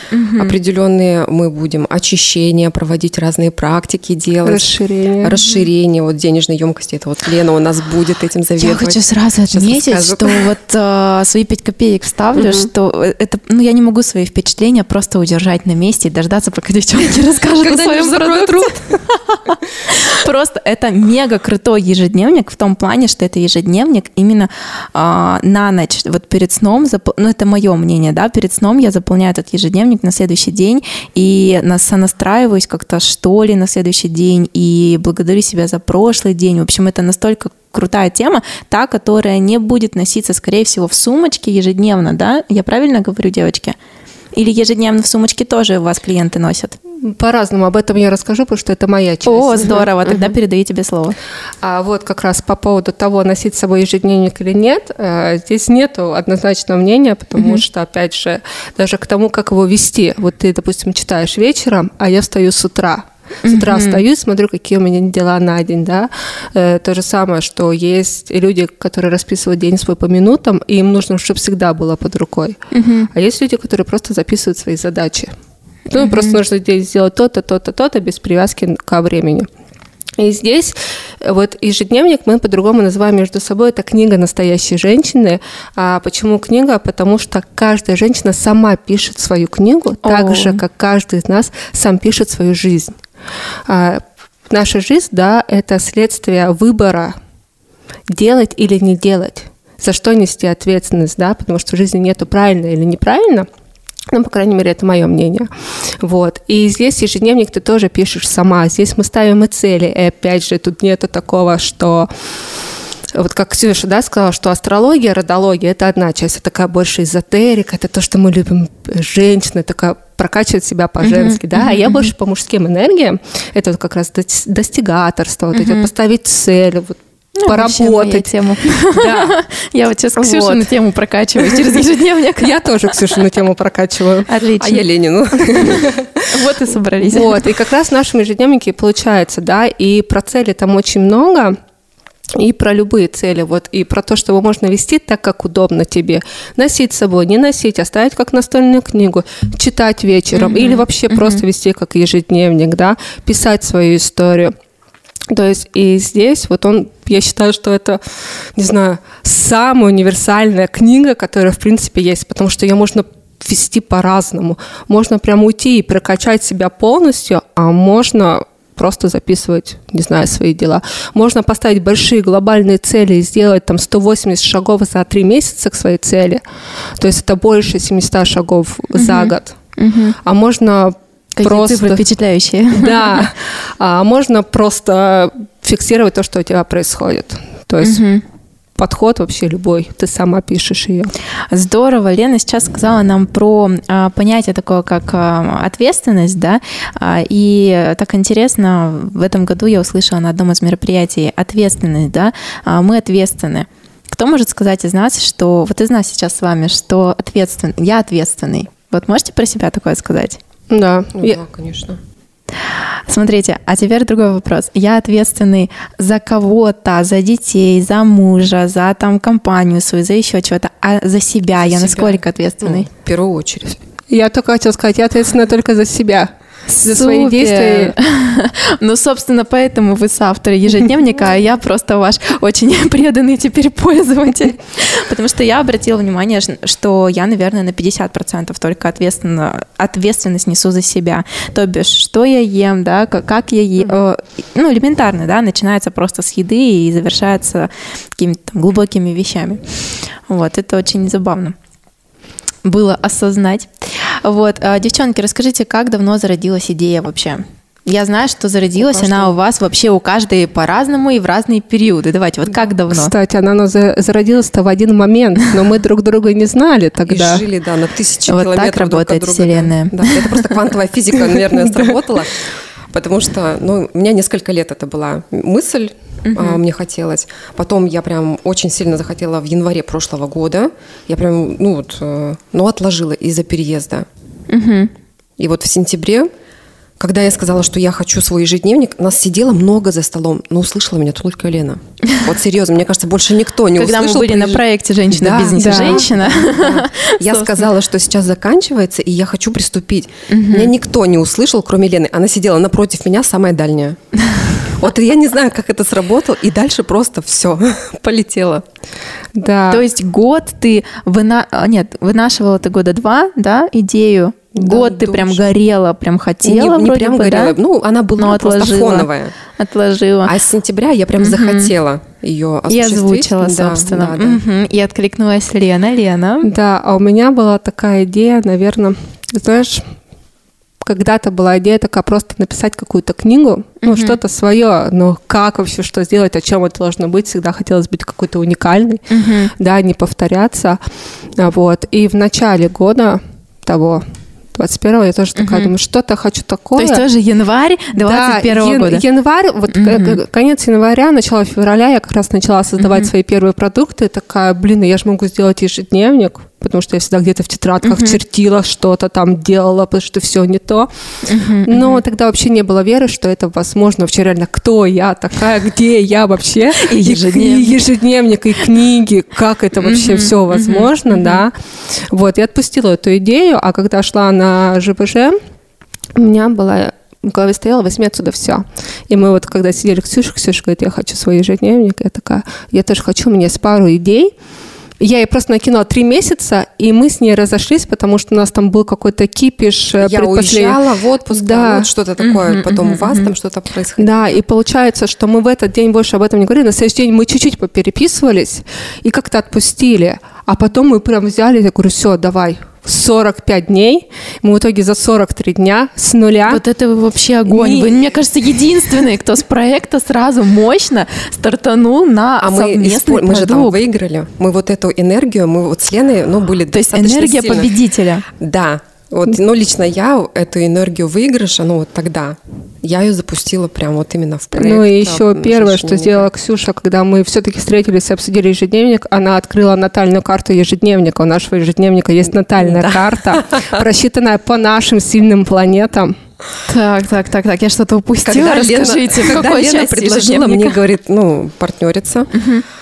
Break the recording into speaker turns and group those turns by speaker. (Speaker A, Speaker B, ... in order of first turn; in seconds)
Speaker A: 0.1-0.6, 8.6-43.8, 44.3-46.8, 49.2-51.2, 57.4-57.6, 63.4-64.0, 72.7-73.1, 76.0-76.4, 90.0-90.6, 121.0-122.1, 125.5-125.9, 127.4-132.9, 134.3-134.8, 135.4-137.4, 150.3-151.4, 178.9-180.2, 181.4-183.3, 187.8-188.2, 191.5-210.4, 213.1-222.9, 226.8-249.6, 250.3-251.6, 252.6-263.1, 268.3-270.5, 271.4-271.9, 276.2-276.6, 284.5-284.9, 293.7-297.6, 300.3-300.7, 309.7-317.5, 318.2-320.3, 321.2-321.7, 322.7-326.5, 333.8-334.2, 339.1-339.5, 345.4-345.7, 346.8-349.0, 349.7-350.2, 352.8-353.1, 357.8-358.2, 361.2-362.0, 366.8-367.8, 369.8-371.4, 392.2-393.3, 406.5-413.8, 416.7-418.2, 436.6-440.8, 442.3-442.6
Speaker B: 0.4-9.0, 9.5-10.5, 12.3-12.7, 17.5-18.9, 50.0-50.4, 130.2-130.6, 134.6-136.1, 211.2-212.0, 221.6-223.8, 258.8-259.4, 267.1-284.1, 285.4-286.3, 287.0-304.0, 304.7-308.6, 314.6-315.5, 316.4-319.3, 320.2-324.4, 390.0-394.4, 412.4-417.7, 418.4-426.3, 432.6-433.8, 438.2-442.3
Speaker C: 4.4-5.4, 47.0-49.8, 51.6-72.6, 73.1-75.3, 75.9-79.5, 80.2-93.0, 93.7-97.2, 98.1-103.5, 104.1-105.5, 106.0-112.1, 113.1-129.3, 132.4-134.3, 137.1-141.6, 142.3-154.5, 155.3-158.0, 158.6-176.4, 177.0-179.6, 180.2-182.0, 182.7-188.0, 188.8-191.1, 210.7-211.4, 224.1-227.9, 262.9-267.4, 295.6-296.1, 309.3-309.8, 326.4-329.9, 330.8-339.0, 339.5-340.8, 341.4-347.0, 348.0-360.9, 361.6-371.5, 372.1-375.4, 376.1-384.3, 385.0-390.8, 391.3-391.9, 394.0-406.6, 407.5-407.9, 424.5-436.1